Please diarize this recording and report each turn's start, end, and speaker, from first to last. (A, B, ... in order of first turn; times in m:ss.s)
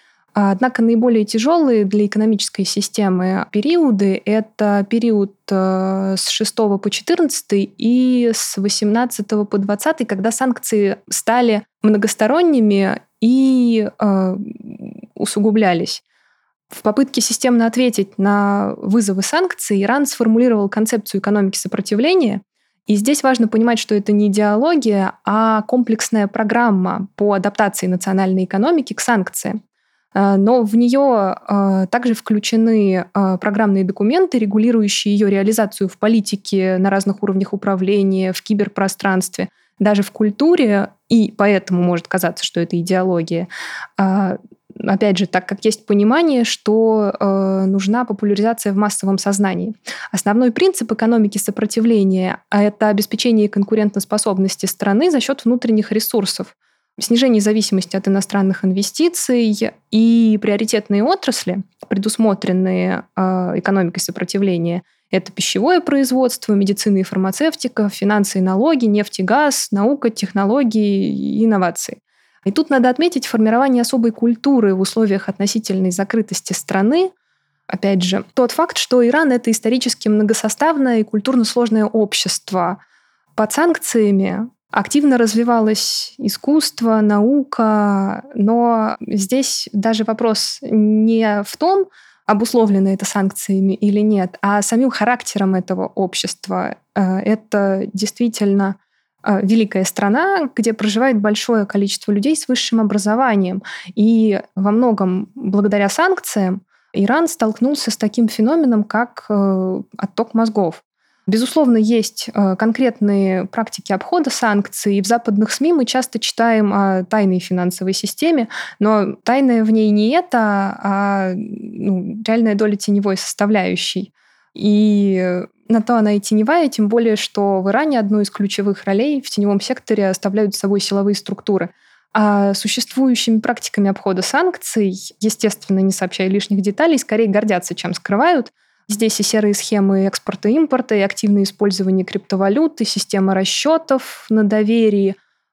0:00.4-0:16.0 A
0:16.7-0:29.6 A
0:30.2-1:17.1 A
1:17.7-1:22.8 A
1:23.4-2:25.2 A